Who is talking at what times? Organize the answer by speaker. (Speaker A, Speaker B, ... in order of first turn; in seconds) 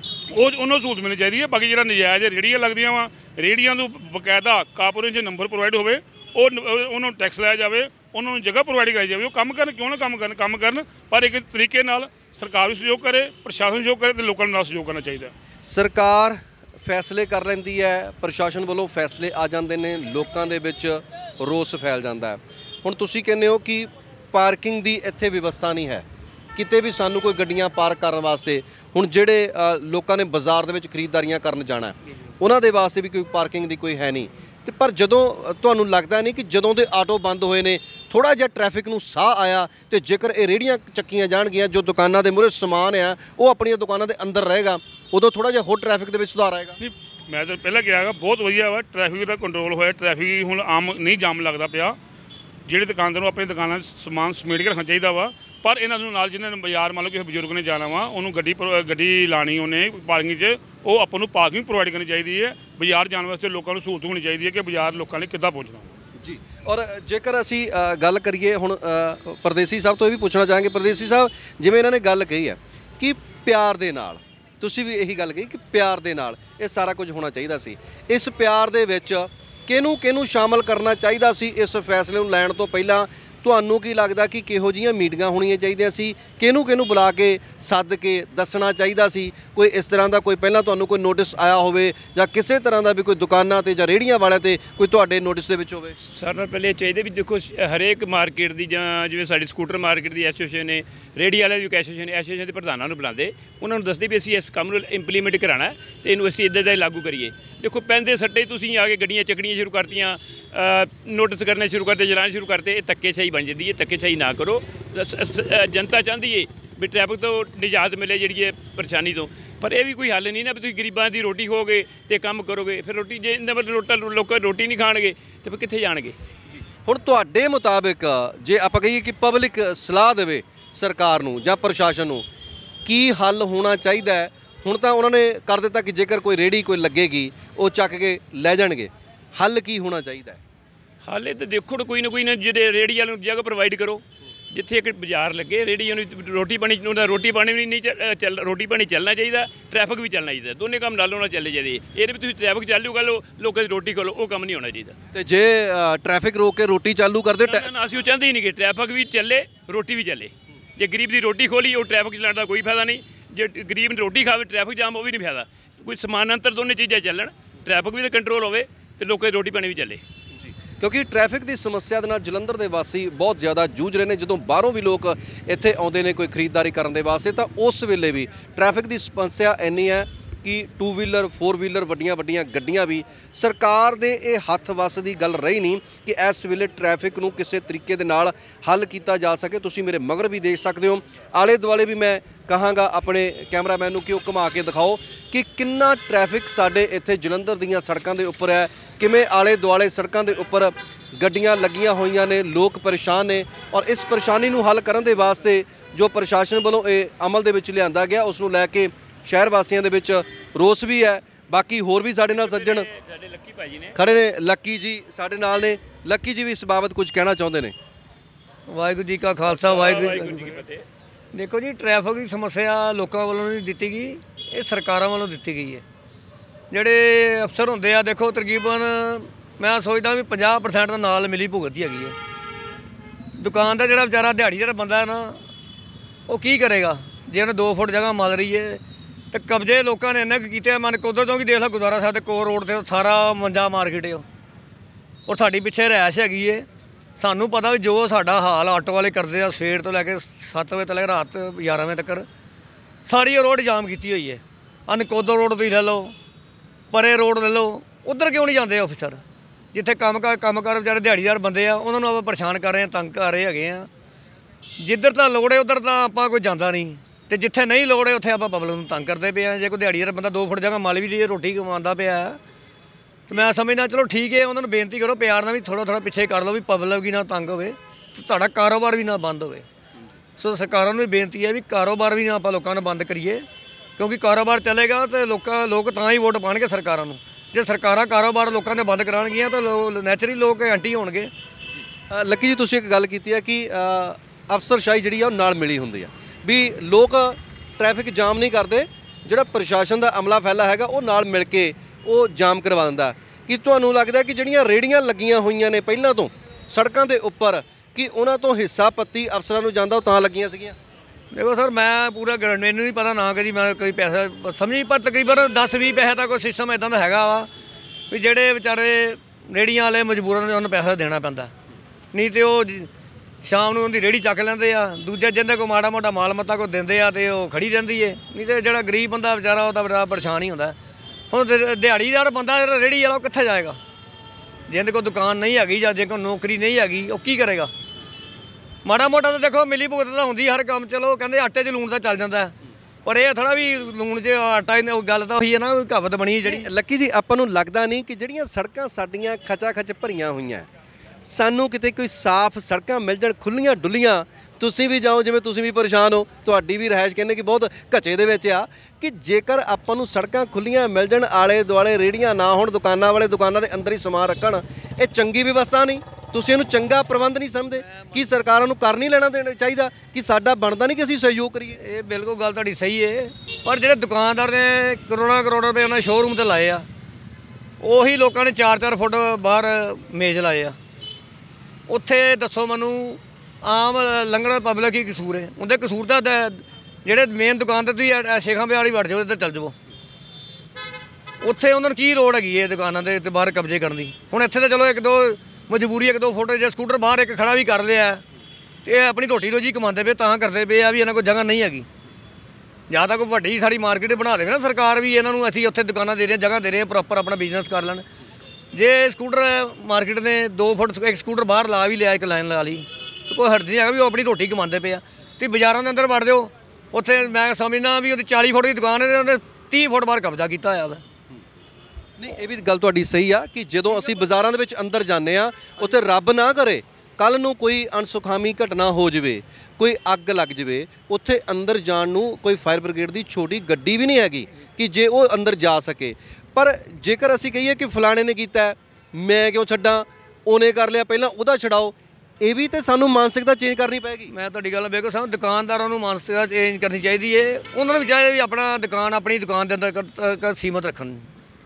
Speaker A: 0.3-15.3, 46.8-52.0, 52.7-65.9
Speaker B: 15.7-26.1, 26.6-46.8, 66.2-96.0, 126.8-132.3, 132.8-140.4, 155.1-157.7, 170.3-212.9, 213.9-217.7, 292.1-310.8, 346.4-350.7, 351.3-371.8, 422.2-444.3
Speaker C: 96.0-126.2, 141.0-154.9, 157.4-170.0, 212.4-214.0, 219.5-220.8
Speaker D: 218.7-220.6, 221.3-225.8, 226.7-232.2, 233.4-235.4, 236.3-244.2, 245.3-252.2, 253.1-256.1, 256.9-259.2, 259.7-263.9, 264.8-272.4, 273.3-279.6, 280.4-283.4, 284.0-291.3, 311.3-317.5, 318.1-321.5, 322.1-322.9, 323.4-330.8, 331.3-333.8, 334.7-337.7, 338.9-342.5, 343.1-346.7, 367.9-368.3, 371.8-376.9, 377.8-380.8, 381.9-389.8, 391.4-398.2, 398.9-401.9, 402.9-408.1, 408.7-421.0, 444.3-451.3